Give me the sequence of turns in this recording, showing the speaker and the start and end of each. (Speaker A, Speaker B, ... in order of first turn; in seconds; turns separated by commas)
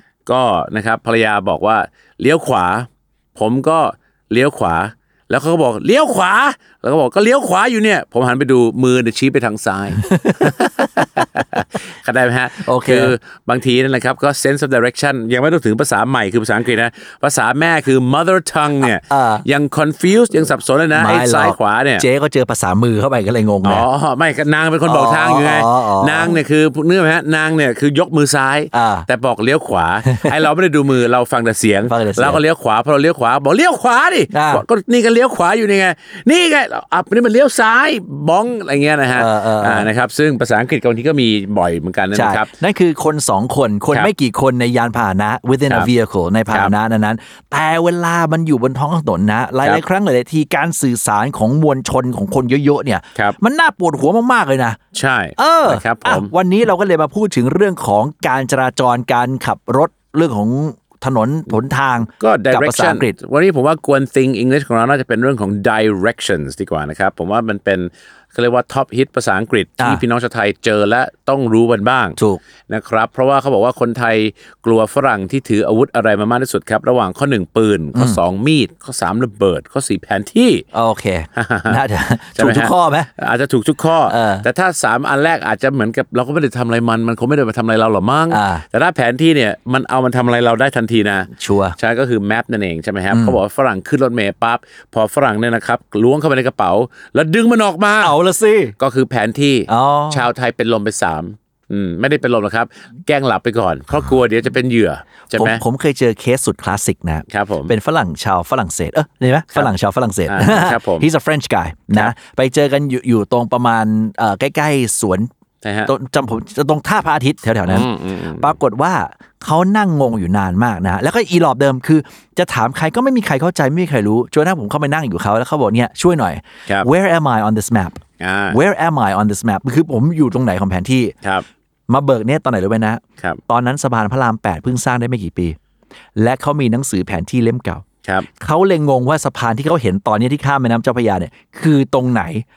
Speaker A: 0.3-22.1, Speaker B: 10.0-10.9, Speaker B: 12.6-13.2, Speaker B: 19.1-19.4, Speaker B: 20.9-23.8, Speaker A: 23.6-42.5, Speaker B: 24.8-26.4, Speaker B: 28.7-29.1, Speaker B: 30.1-30.4, Speaker B: 31.9-32.4, Speaker B: 34.3-34.6, Speaker B: 39.1-39.9, Speaker B: 42.1-54.8, Speaker A: 54.9-56.3, Speaker B: 55.4-63.1, Speaker A: 62.2-72.2, Speaker A: 72.7-80.6, Speaker B: 77.9-78.2, Speaker B: 80.7-83.1, Speaker A: 81.3-81.8, Speaker A: 82.3-98.2, Speaker B: 84.1-84.5, Speaker B: 88.3-88.6, Speaker B: 91.4-91.7, Speaker B: 93.1-93.4, Speaker B: 98.0-98.8, Speaker A: 98.8-105.6, Speaker B: 99.7-100.2, Speaker B: 105.3-115.3, Speaker A: 107.3-107.7, Speaker A: 110.3-111.1, Speaker A: 115.6-115.9, Speaker B: 115.8-117.9, Speaker A: 117.7-118.5, Speaker B: 118.4-131.1, Speaker A: 128.2-128.6, Speaker B: 131.9-135.6, Speaker B: 136.2-137.8, Speaker B: 138.4-142.4